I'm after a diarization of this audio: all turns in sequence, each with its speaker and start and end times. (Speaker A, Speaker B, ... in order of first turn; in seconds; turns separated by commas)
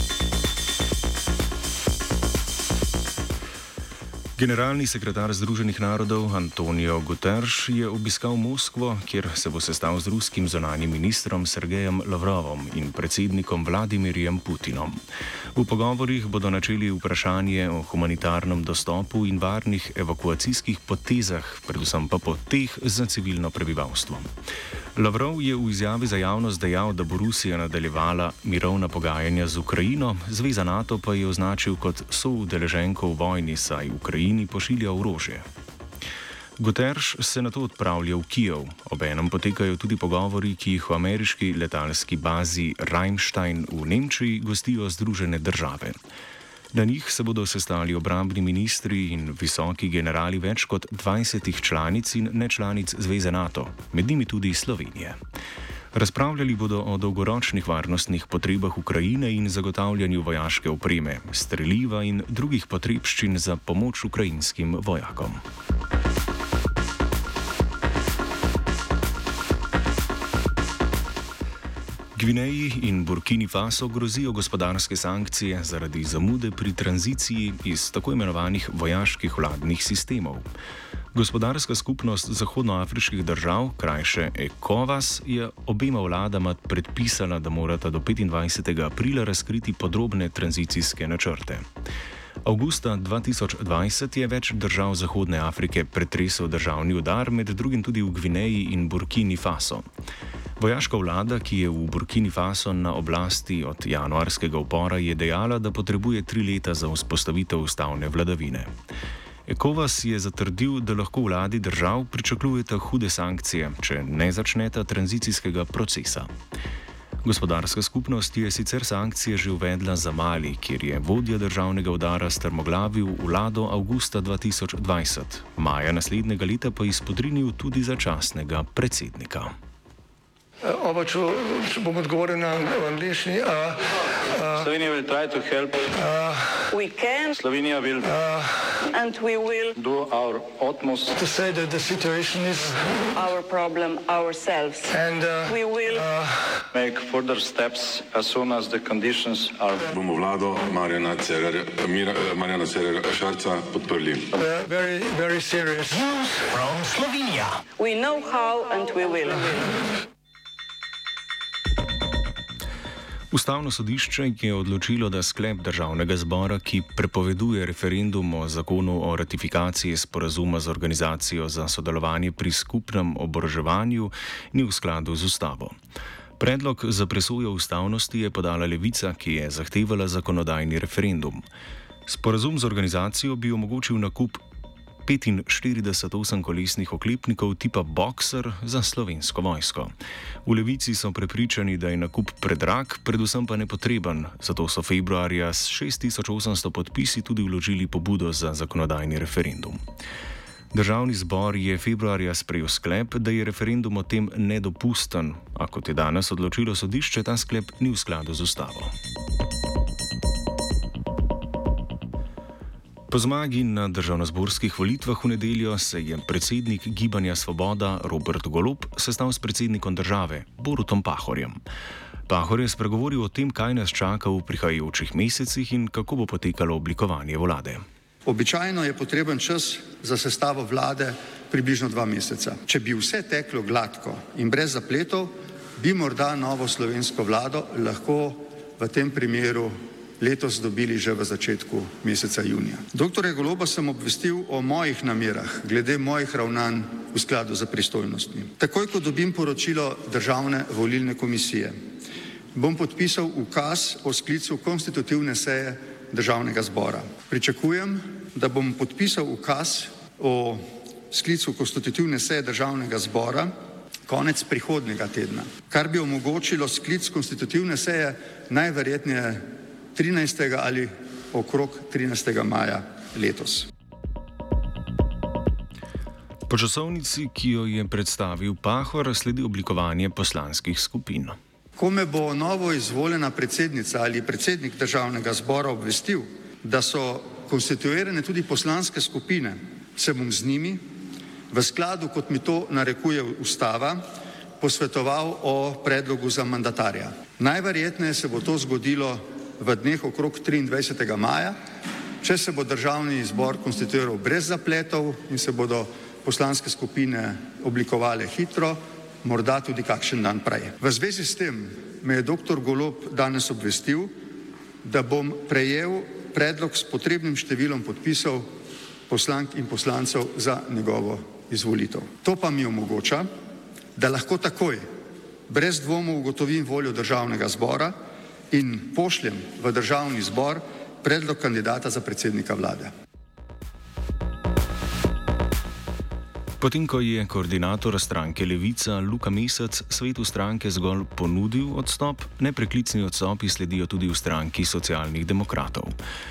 Speaker A: 4.4-15.0, Speaker A: 15.5-24.3, Speaker A: 24.9-35.5, Speaker A: 36.6-46.0, Speaker A: 46.7-55.2, Speaker A: 55.9-65.4, Speaker A: 72.1-80.5, Speaker A: 81.1-91.6, Speaker A: 92.4-99.8, Speaker A: 100.6-108.7, Speaker A: 109.5-116.3, Speaker A: 117.2-129.5, Speaker B: 130.6-134.7, Speaker C: 134.5-135.9, Speaker B: 135.9-136.6, Speaker D: 136.7-137.3, Speaker C: 137.3-138.2, Speaker B: 138.1-138.8, Speaker D: 138.8-139.8, Speaker C: 139.7-141.2, Speaker B: 141.2-143.1, Speaker D: 143.1-146.1, Speaker B: 144.9-146.6, Speaker C: 146.7-149.9, Speaker E: 149.9-154.3, Speaker B: 154.3-157.6, Speaker D: 157.8-159.7, Speaker A: 163.3-175.7, Speaker A: 176.4-181.4, Speaker A: 182.1-184.4, Speaker A: 185.0-189.9, Speaker A: 190.4-199.8, Speaker A: 200.7-208.9, Speaker A: 213.1-221.6, Speaker A: 222.3-227.8, Speaker F: 228.2-251.7, Speaker F: 252.5-263.5, Speaker F: 264.1-273.7, Speaker A: 276.5-281.4, Speaker F: 281.8-290.8, Speaker F: 291.5-294.0, Speaker F: 294.6-301.5, Speaker F: 302.2-314.1, Speaker F: 314.8-318.5, Speaker F: 319.1-323.2, Speaker F: 323.9-324.8, Speaker F: 325.5-327.9, Speaker F: 328.5-332.9, Speaker A: 336.6-346.0